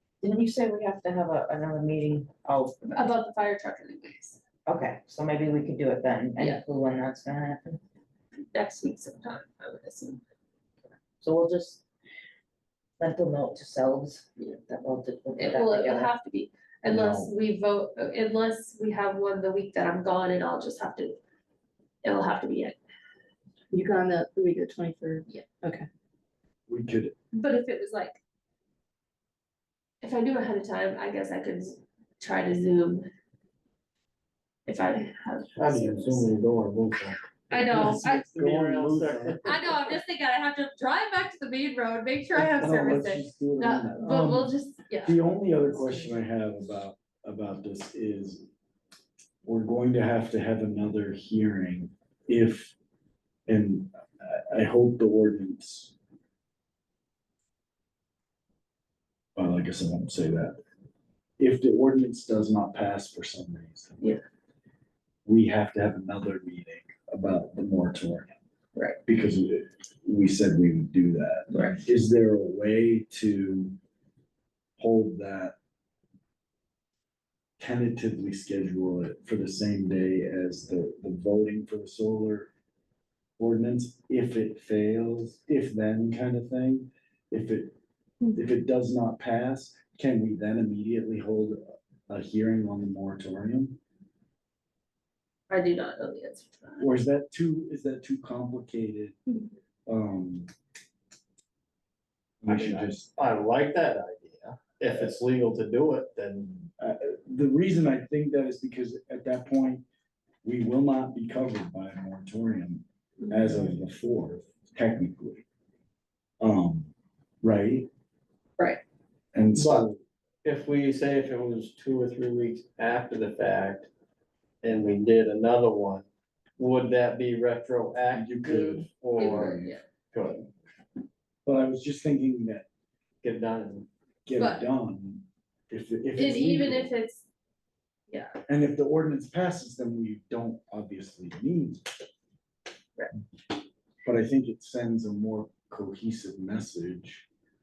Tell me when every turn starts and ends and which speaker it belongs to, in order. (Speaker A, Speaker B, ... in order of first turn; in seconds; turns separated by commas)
Speaker A: 0.2-3.0, Speaker B: 2.9-4.4, Speaker A: 4.7-7.8, Speaker B: 8.5-10.2, Speaker A: 11.2-11.8, Speaker A: 13.0-16.1, Speaker B: 15.4-21.2, Speaker C: 16.9-17.3, Speaker B: 22.0-22.8, Speaker D: 23.7-25.9, Speaker C: 26.7-27.1, Speaker B: 27.3-28.2, Speaker B: 30.0-33.1, Speaker B: 34.7-36.3, Speaker E: 35.5-37.2, Speaker B: 37.5-38.3, Speaker C: 37.5-39.8, Speaker E: 38.3-39.8, Speaker B: 39.4-45.2, Speaker C: 42.4-44.5, Speaker C: 45.0-48.5, Speaker C: 49.4-52.7, Speaker C: 53.5-55.9, Speaker C: 59.4-60.6, Speaker C: 61.4-64.1, Speaker C: 65.2-68.4, Speaker C: 69.0-73.8, Speaker B: 71.5-71.8, Speaker C: 74.8-75.5, Speaker C: 77.6-82.5, Speaker C: 83.4-87.8, Speaker C: 88.3-93.8, Speaker B: 95.5-96.9, Speaker C: 96.8-99.2, Speaker C: 99.9-100.5, Speaker C: 102.4-103.1, Speaker E: 102.5-106.7, Speaker C: 106.8-109.8, Speaker C: 110.4-115.4, Speaker B: 113.2-113.7, Speaker C: 116.4-116.9, Speaker C: 117.4-117.9, Speaker C: 119.3-119.9, Speaker E: 119.5-123.9, Speaker E: 124.6-130.5, Speaker C: 128.1-129.8, Speaker B: 129.2-129.8, Speaker C: 131.4-132.7, Speaker E: 133.2-133.9, Speaker C: 134.2-136.9, Speaker B: 134.4-134.7, Speaker B: 136.2-137.3, Speaker B: 138.1-138.4, Speaker C: 138.5-141.9, Speaker C: 144.0-147.3